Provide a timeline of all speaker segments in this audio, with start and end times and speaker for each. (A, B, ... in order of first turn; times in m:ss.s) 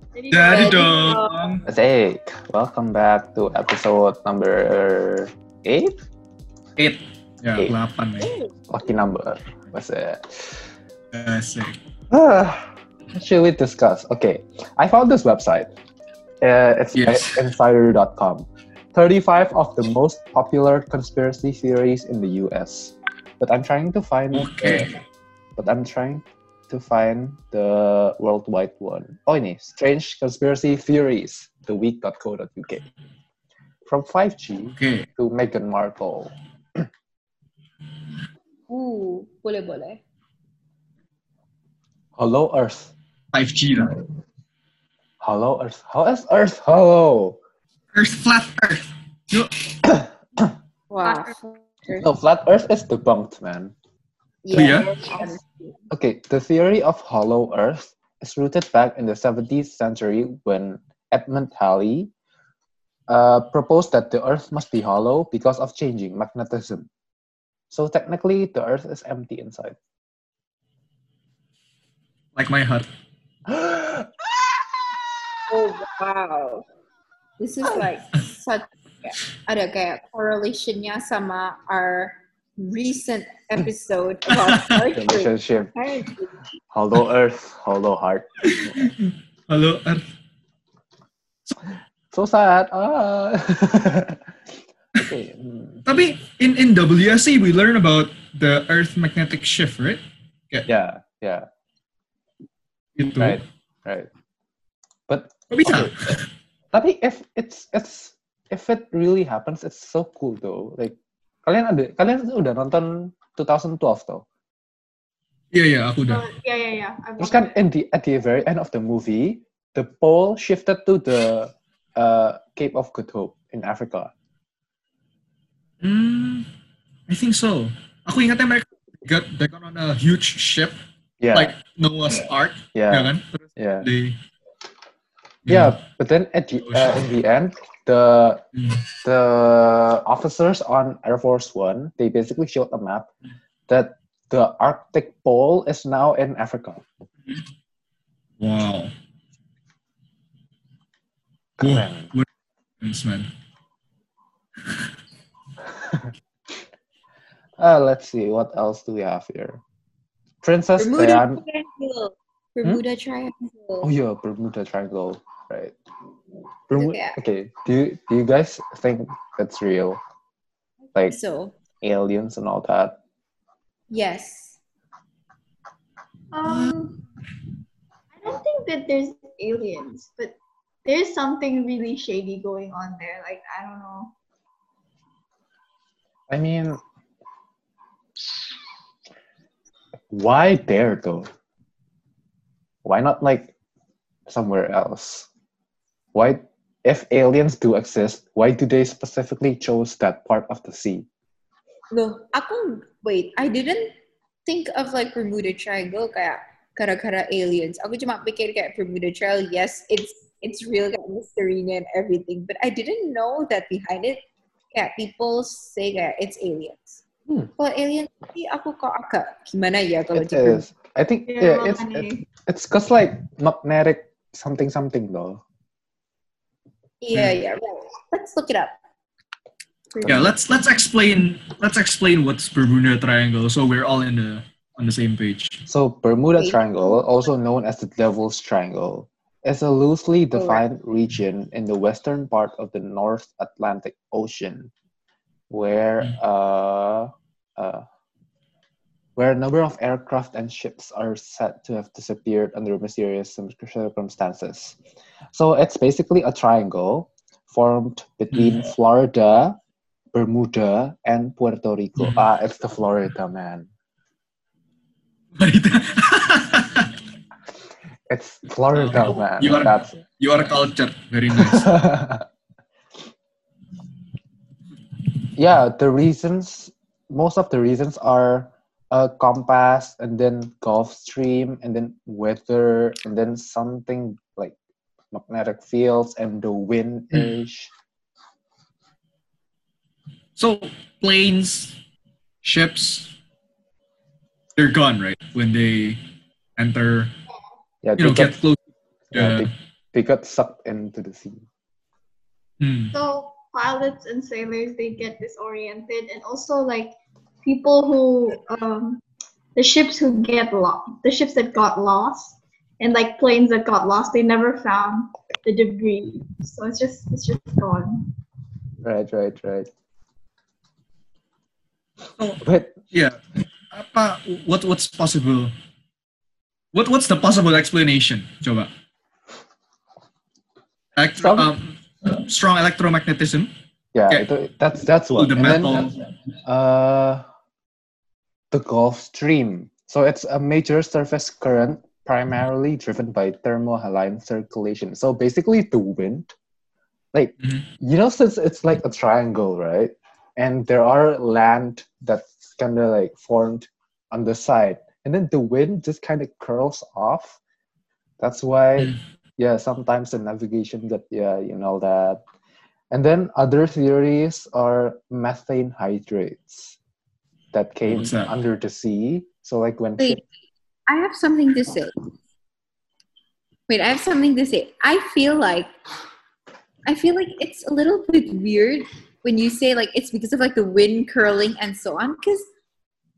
0:00.2-0:01.2 A
0:00.3-0:01.6 B
0:00.5-0:01.2 C
0:01.7-0:06.0 D
0:06.8-0:08.3 B
0:08.7-0:10.6 D
0:11.1-0:11.8 B
0:12.1-0:15.7 D
0:16.4-0:24.9 D
0:17.0-0:17.4 B
0:24.3-0:25.0 B
0:25.6-0:32.9 D
0:33.9-0:36.9 D
0:34.7-0:35.1 B
0:38.7-0:40.0 C
0:42.2-0:43.0 D
0:43.3-0:44.0 B
0:45.2-0:47.4 D
0:47.9-0:49.8 B
0:49.8-0:50.5 D
0:50.9-0:52.0 C
0:51.0-0:51.6 A
0:52.0-0:53.7 D
0:54.4-0:55.7 C
0:54.5-0:54.9 B
0:54.6-0:55.4 A
0:55.9-1:02.1 D
1:03.1-1:06.9 D
1:07.7-1:09.8 D
1:12.4-1:12.9 B
1:13.5-1:14.3 D
1:15.5-1:16.6 C
1:17.4-1:25.3 C
1:24.3-1:24.9 B
1:24.9-1:25.7 D
1:25.8-1:26.1 A
1:26.7-1:28.9 D
1:28.4-1:30.0 B
1:32.1-1:34.2 D
1:35.0-1:35.8 D
1:35.9-1:40.7 B
1:40.7-1:41.5 D
1:43.0-1:43.4 B
1:43.2-1:44.1 D
1:45.1-1:45.9 D
1:45.5-1:46.2 B
1:46.7-1:54.3 D
1:55.5-1:56.3 B
1:56.1-1:57.6 A
1:57.2-2:04.1 D
2:05.8-2:06.5 B
2:07.1-2:10.8 B
2:11.2-2:11.6 D
2:11.3-2:14.2 B
2:12.7-2:13.9 D
2:15.5-2:15.8 B
2:15.5-2:18.4 D
2:16.7-2:17.1 B
2:18.6-2:18.8 B
2:19.0-2:23.1 D
2:23.7-2:26.9 D
2:28.4-2:28.9 B
2:31.6-2:32.1 D
2:31.6-2:32.3 B
2:32.8-2:33.3 B
2:35.8-2:36.1 D
2:37.6-2:39.6 D
2:40.4-2:41.4 D
2:40.8-2:43.9 C
2:43.8-2:45.8 D
2:46.7-2:50.0 D
2:46.8-2:47.2 C
2:51.1-2:51.6 C
2:51.8-2:53.0 D
2:53.9-2:54.6 C
2:56.3-2:57.0 A
2:56.5-2:56.8 B
2:58.2-3:04.1 A
3:06.3-3:06.8 D
3:10.1-3:11.3 D
3:12.8-3:13.5 D
3:14.3-3:15.3 D
3:16.2-3:21.1 D
3:21.9-3:37.0 C
3:37.6-3:40.6 C
3:40.1-3:45.4 D
3:41.3-3:42.3 A
3:47.0-3:48.8 C
3:47.1-3:47.4 B
3:49.9-3:50.3 C
3:50.0-3:50.4 D
3:50.1-3:55.6 B
3:55.7-4:04.7 D
3:56.4-3:57.0 C
4:00.3-4:00.6 C
4:05.5-4:07.8 D
4:09.2-4:14.8 D
4:15.3-4:19.6 D
4:18.3-4:18.6 B
4:20.1-4:23.7 D
4:22.0-4:22.2 B
4:25.4-4:26.9 B
4:28.1-4:30.0 D
4:28.8-4:31.7 B
4:31.4-4:32.3 D
4:35.3-4:44.6 D
4:45.1-4:47.7 D
4:50.4-4:51.8 B
4:52.4-4:53.1 B
4:54.6-4:56.0 B
4:56.6-4:57.1 B
4:57.8-4:58.4 D
4:58.0-4:58.6 B
4:59.1-5:01.4 D
4:59.1-4:59.5 B
5:02.6-5:03.0 B
5:02.9-5:09.0 A
5:09.6-5:18.1 A
5:18.8-5:19.7 D
5:22.2-5:23.2 B
5:22.4-5:22.8 D
5:23.7-5:25.5 B
5:26.7-5:28.7 B
5:31.0-5:33.5 B
5:31.2-5:31.5 D
5:33.9-5:35.9 D
5:35.2-5:36.0 B
5:36.4-5:37.2 D
5:38.5-5:46.3 D
5:47.1-5:57.4 D
5:58.2-6:02.2 D
6:02.9-6:06.8 D
6:07.5-6:10.2 D
6:07.9-6:08.3 B
6:10.0-6:10.2 C
6:10.9-6:12.0 C
6:13.7-6:15.7 C
6:16.9-6:22.5 C